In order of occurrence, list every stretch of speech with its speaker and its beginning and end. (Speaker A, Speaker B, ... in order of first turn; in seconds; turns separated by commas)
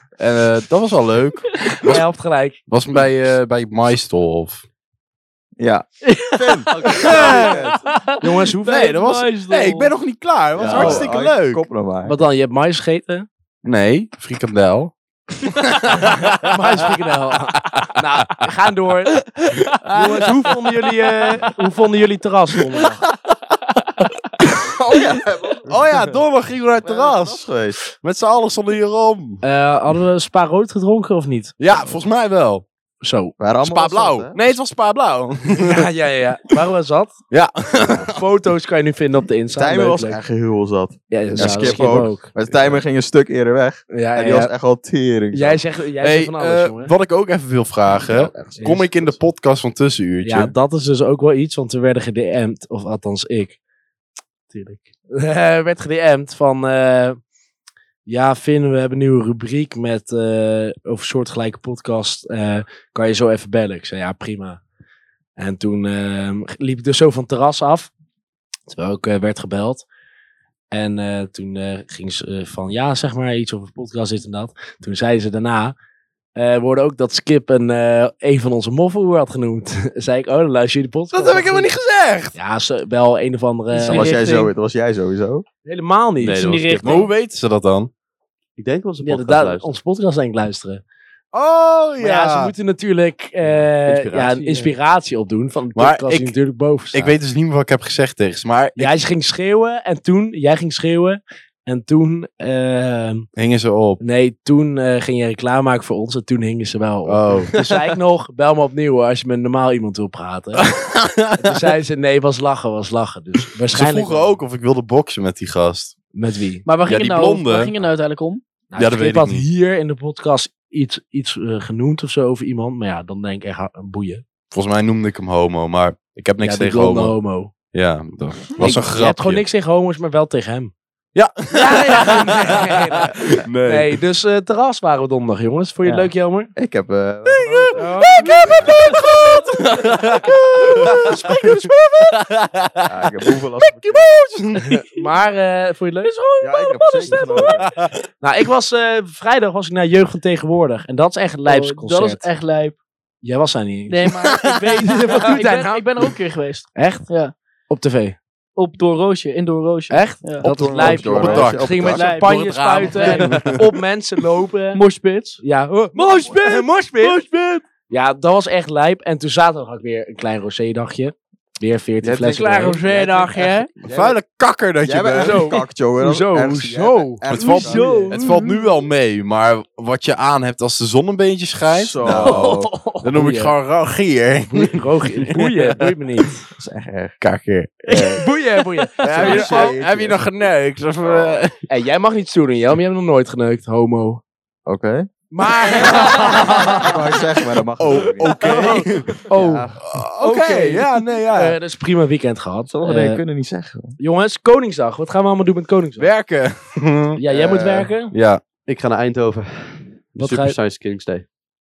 Speaker A: 0.2-2.0, Speaker B: 1.8-2.7, Speaker A: 2.7-4.6, Speaker C: 5.6-7.8, Speaker D: 6.1-9.9, Speaker E: 6.7-7.4, Speaker B: 8.2-9.0, Speaker A: 8.7-11.6, Speaker C: 10.6-12.2, Speaker B: 10.7-11.1, Speaker B: 12.1-13.3, Speaker A: 13.6-16.9, Speaker B: 16.0-19.2, Speaker A: 17.6-17.9, Speaker A: 19.2-21.5, Speaker B: 19.9-23.0, Speaker C: 24.6-26.2, Speaker A: 25.6-29.4, Speaker C: 26.8-27.8, Speaker B: 29.4-31.6, Speaker A: 31.6-32.6, Speaker B: 33.0-33.4, Speaker C: 33.4-34.4, Speaker A: 33.6-35.9, Speaker B: 35.5-37.2, Speaker A: 37.3-38.1, Speaker B: 38.0-40.2, Speaker C: 39.6-45.6, Speaker B: 41.1-42.3, Speaker A: 41.4-42.7, Speaker B: 43.9-44.5, Speaker B: 45.3-46.9, Speaker A: 46.0-50.5, Speaker B: 48.1-49.2, Speaker B: 50.2-53.6, Speaker B: 54.5-57.2, Speaker B: 58.1-64.6, Speaker B: 65.4-67.9, Speaker B: 68.7-69.9, Speaker B: 70.7-75.8, Speaker B: 76.3-81.7, Speaker A: 81.1-82.3, Speaker B: 82.3-84.2, Speaker D: 83.7-84.5, Speaker C: 83.9-85.5, Speaker B: 85.7-87.0, Speaker E: 86.2-86.8, Speaker D: 86.2-87.1, Speaker A: 86.8-87.9, Speaker E: 88.6-89.7, Speaker B: 89.0-90.8, Speaker A: 91.3-92.5, Speaker B: 92.0-97.2, Speaker E: 93.5-94.7, Speaker A: 95.8-96.4, Speaker A: 96.9-99.0, Speaker B: 98.8-103.3, Speaker A: 103.4-104.0, Speaker B: 104.0-110.7, Speaker A: 107.0-107.5, Speaker A: 110.6-111.5, Speaker B: 111.4-114.4, Speaker A: 113.7-116.0, Speaker B: 116.1-116.7, Speaker D: 116.7-118.4, Speaker A: 116.9-117.7, Speaker B: 118.7-124.2, Speaker A: 118.8-119.5, Speaker A: 124.5-129.4, Speaker B: 126.4-127.5, Speaker B: 128.6-130.7, Speaker A: 131.2-134.0, Speaker B: 131.5-136.5, Speaker C: 135.8-138.3, Speaker A: 137.3-142.9, Speaker B: 137.8-138.3, Speaker D: 138.4-139.4, Speaker B: 140.9-141.7, Speaker C: 142.9-144.2, Speaker A: 143.6-144.8, Speaker B: 144.7-146.1, Speaker D: 146.0-147.7, Speaker C: 146.4-147.7, Speaker A: 147.6-147.9, Speaker B: 148.2-152.3, Speaker D: 151.5-152.8, Speaker B: 153.2-154.1, Speaker D: 153.9-157.3, Speaker A: 154.2-154.8, Speaker B: 154.8-156.2, Speaker B: 156.8-157.1, Speaker B: 157.7-158.2, Speaker D: 158.6-160.4, Speaker B: 159.9-164.8, Speaker A: 160.4-163.7, Speaker C: 160.4-162.1, Speaker D: 161.9-163.4, Speaker D: 164.7-165.4, Speaker B: 165.4-167.2, Speaker D: 166.0-167.2, Speaker A: 167.0-167.6, Speaker B: 167.8-172.8, Speaker C: 172.0-174.2, Speaker D: 172.4-173.7, Speaker A: 173.8-175.6, Speaker C: 174.8-178.0, Speaker B: 175.2-178.3, Speaker A: 177.3-185.9, Speaker D: 177.6-178.7, Speaker C: 181.6-182.7, Speaker B: 182.1-183.6, Speaker B: 184.5-186.4, Speaker C: 186.6-187.2, Speaker A: 187.2-188.2, Speaker B: 187.9-189.7, Speaker D: 188.8-189.6, Speaker C: 189.0-190.2, Speaker A: 189.1-191.6, Speaker C: 191.0-191.4, Speaker B: 191.7-194.2, Speaker C: 194.7-195.1, Speaker B: 195.3-197.0, Speaker D: 195.9-196.4, Speaker C: 196.1-199.9, Speaker A: 197.8-199.2, Speaker D: 198.4-198.8, Speaker B: 199.3-203.2, Speaker A: 199.9-201.6, Speaker C: 202.7-204.0, Speaker B: 204.0-206.1, Speaker A: 206.0-207.2, Speaker B: 207.2-208.1, Speaker C: 207.3-207.9, Speaker A: 208.1-208.4, Speaker E: 208.7-211.2, Speaker B: 210.2-210.6